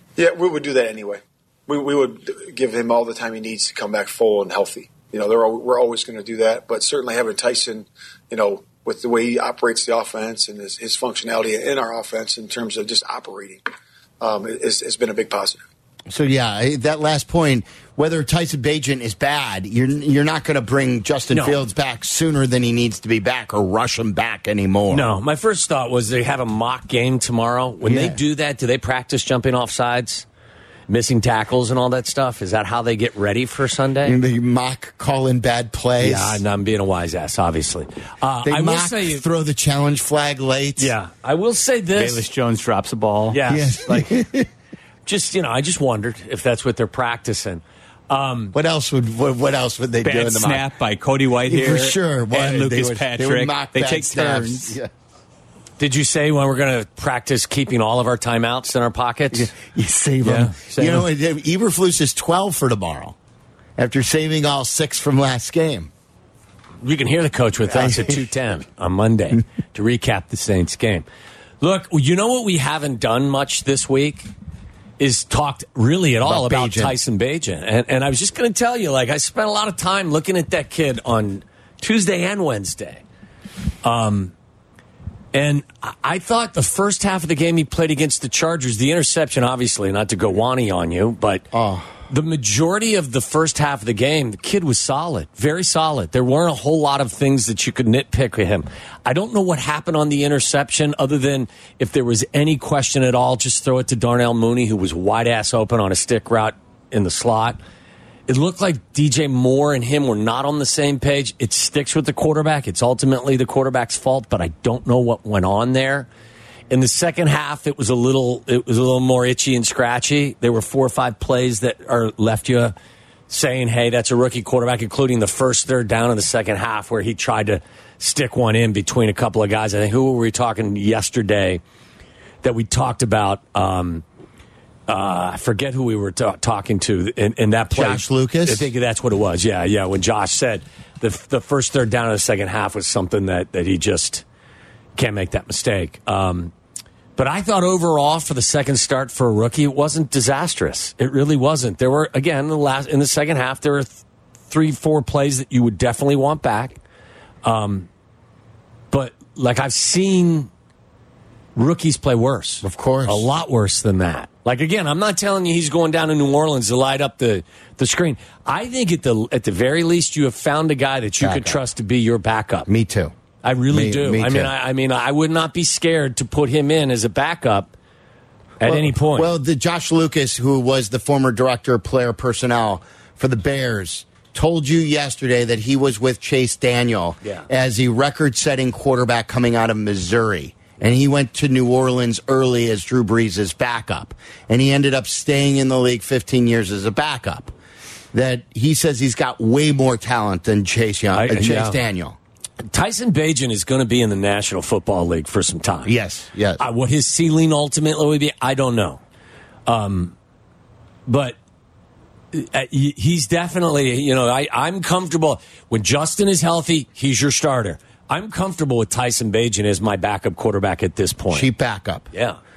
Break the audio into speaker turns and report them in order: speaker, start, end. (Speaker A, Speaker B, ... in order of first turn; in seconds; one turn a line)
Speaker A: 0.1-13.6
Speaker A: 14.2-15.6
Speaker B: 16.1-25.1
Speaker C: 21.3-21.6
Speaker C: 24.9-30.2
Speaker B: 27.8-28.2
Speaker C: 30.9-34.1
Speaker B: 34.0-36.4
Speaker C: 36.0-39.2
Speaker B: 38.4-40.9
Speaker C: 40.8-42.2
Speaker D: 41.9-43.4
Speaker C: 43.3-44.1
Speaker B: 43.5-44.5
Speaker C: 45.0-48.5
Speaker B: 48.5-50.7
Speaker D: 50.0-54.8
Speaker B: 51.5-54.9
Speaker C: 55.8-59.5
Speaker B: 59.3-63.1
Speaker C: 60.2-61.1
Speaker B: 63.8-65.9
Speaker C: 66.8-71.0
Speaker B: 67.7-68.3
Speaker C: 71.6-74.3
Speaker C: 75.0-83.0
Speaker B: 76.2-76.9
Speaker C: 83.8-84.3
Speaker C: 85.3-91.5
Speaker B: 91.5-91.9
Speaker C: 92.1-107.6
Speaker C: 108.3-116.1
Speaker C: 116.7-122.7
Speaker C: 123.3-131.6
Speaker C: 132.4-134.0
Speaker C: 134.9-144.2
Speaker B: 137.7-138.7
Speaker C: 144.9-146.5
Speaker C: 147.2-156.8
Speaker C: 157.4-157.9
Speaker C: 158.9-160.5
Speaker C: 161.6-172.7
Speaker B: 162.6-163.3
Speaker B: 171.2-171.6
Speaker B: 172.7-173.1
Speaker C: 173.4-177.7
Speaker B: 173.7-174.5
Speaker C: 178.6-179.3
Speaker B: 178.6-197.5
Speaker B: 198.1-202.2
Speaker C: 201.1-201.8
Speaker C: 202.7-205.9
Speaker B: 205.8-206.6
Speaker C: 206.6-209.0
Speaker C: 209.7-210.1
Speaker C: 211.1-211.3
Speaker C: 212.3-221.5
Speaker B: 221.3-222.1
Speaker C: 222.1-222.4